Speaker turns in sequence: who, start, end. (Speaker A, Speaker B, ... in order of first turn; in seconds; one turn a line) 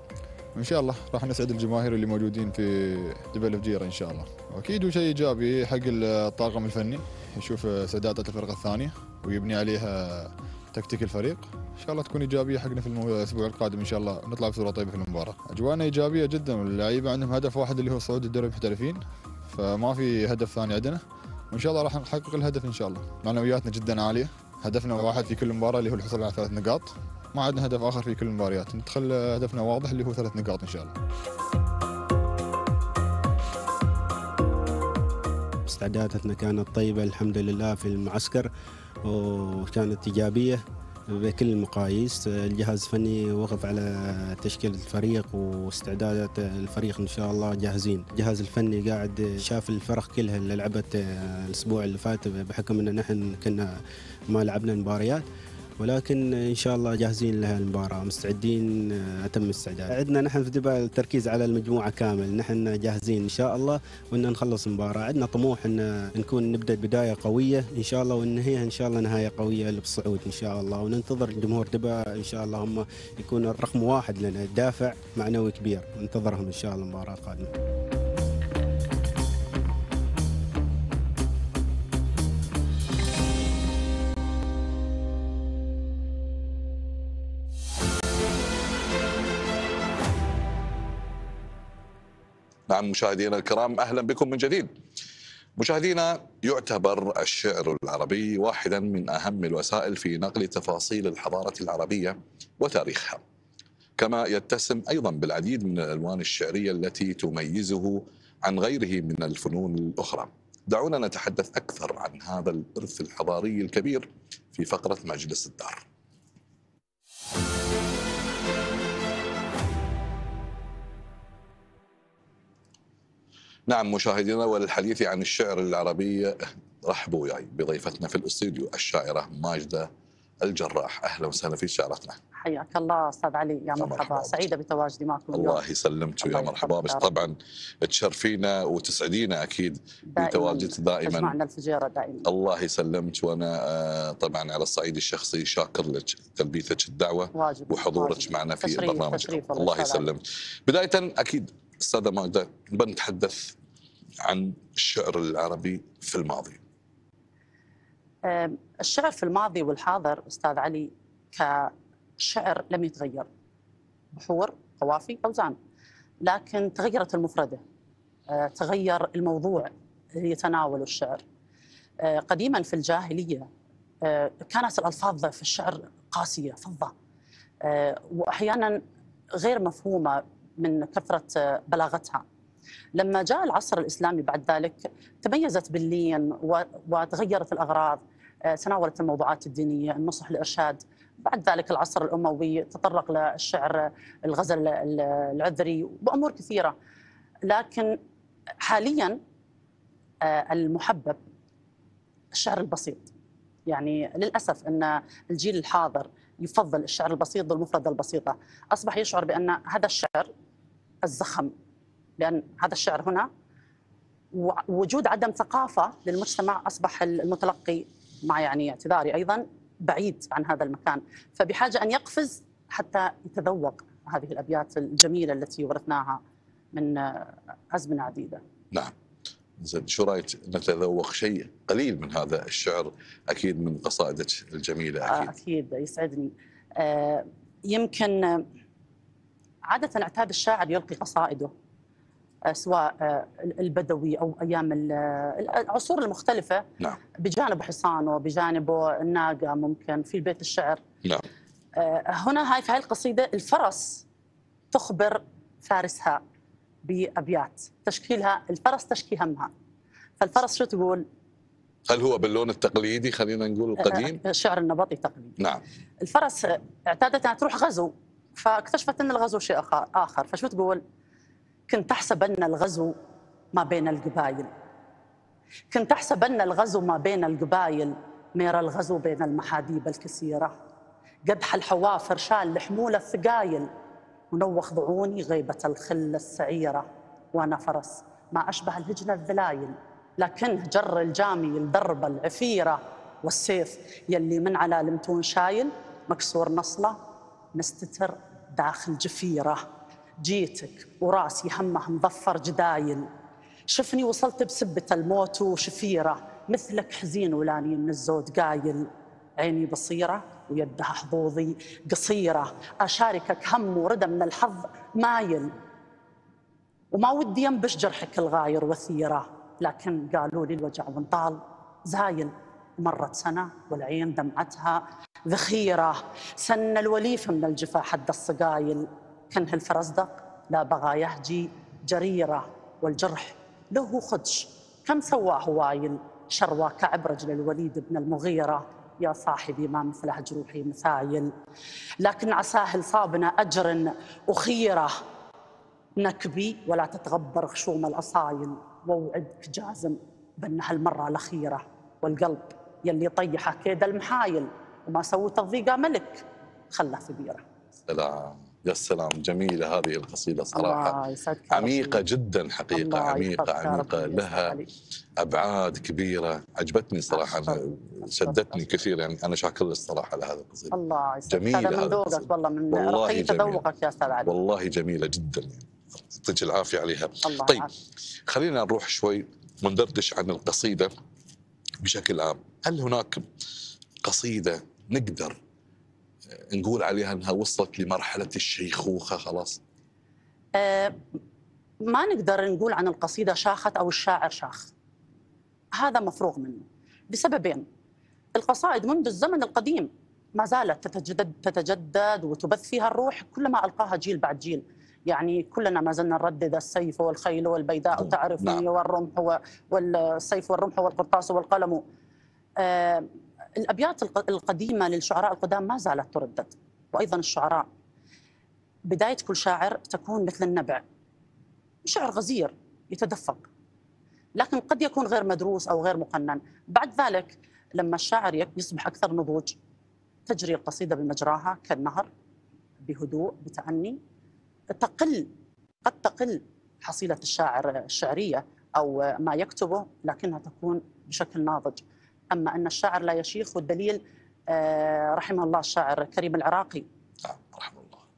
Speaker A: 0.6-31.0
Speaker B: 35.7-38.5
Speaker B: 39.0-53.8
Speaker B: 54.3-55.2
Speaker B: 55.8-77.5
Speaker C: 92.7-94.7
Speaker C: 95.6-103.2
Speaker C: 104.0-115.8
Speaker C: 123.7-129.9
Speaker C: 130.4-132.2
Speaker D: 132.4-135.6
Speaker C: 133.8-134.5
Speaker C: 135.3-141.4
Speaker D: 136.2-137.2
Speaker D: 140.2-142.3
Speaker C: 142.2-153.6
Speaker D: 147.3-150.1
Speaker C: 154.2-156.6
Speaker D: 158.2-163.3
Speaker D: 164.1-165.6
Speaker D: 166.2-167.6
Speaker D: 168.3-171.2
Speaker D: 172.0-173.5
Speaker D: 174.1-176.9
Speaker D: 177.6-178.8
Speaker D: 179.4-182.2
Speaker D: 183.0-196.8
Speaker D: 197.5-198.0
Speaker D: 198.6-199.2
Speaker D: 200.2-201.2
Speaker D: 202.3-203.1
Speaker D: 203.7-210.3
Speaker D: 211.1-211.5
Speaker D: 212.2-213.3
Speaker D: 214.3-226.2
Speaker D: 226.7-228.4
Speaker C: 229.6-235.3
Speaker D: 235.1-238.5
Speaker D: 239.7-241.5
Speaker D: 242.5-246.7
Speaker D: 247.2-250.8
Speaker D: 251.8-254.1
Speaker D: 254.7-256.2
Speaker D: 256.9-259.5
Speaker D: 260.2-261.1
Speaker C: 261.9-264.2
Speaker D: 263.8-265.4
Speaker C: 265.4-265.6
Speaker D: 266.0-270.8
Speaker D: 271.7-272.9
Speaker D: 273.6-274.5
Speaker D: 275.7-280.6
Speaker D: 281.3-283.7
Speaker D: 284.3-297.0
Speaker D: 297.6-299.6
Speaker D: 300.2-303.1
Speaker D: 303.7-315.5
Speaker D: 316.9-341.3
Speaker D: 342.0-344.9
Speaker D: 346.0-357.4
Speaker C: 357.9-361.0
Speaker D: 360.5-362.0
Speaker C: 361.5-364.6
Speaker D: 362.7-364.7
Speaker C: 365.2-370.7
Speaker D: 367.1-368.8
Speaker D: 370.7-374.4
Speaker C: 371.3-373.6
Speaker C: 374.2-377.7
Speaker D: 377.2-377.7
Speaker C: 378.3-380.9
Speaker C: 381.8-383.2
Speaker C: 384.0-385.4
Speaker C: 386.5-389.6
Speaker D: 390.6-391.0
Speaker D: 391.8-394.7
Speaker D: 395.8-397.7
Speaker D: 398.4-411.8
Speaker C: 408.0-408.6
Speaker D: 412.6-413.1
Speaker D: 413.6-417.7
Speaker D: 418.9-420.8
Speaker D: 421.9-423.5
Speaker D: 424.4-429.6
Speaker D: 430.3-432.1
Speaker D: 432.9-434.0
Speaker D: 434.7-435.3
Speaker D: 435.9-446.9
Speaker C: 447.2-448.0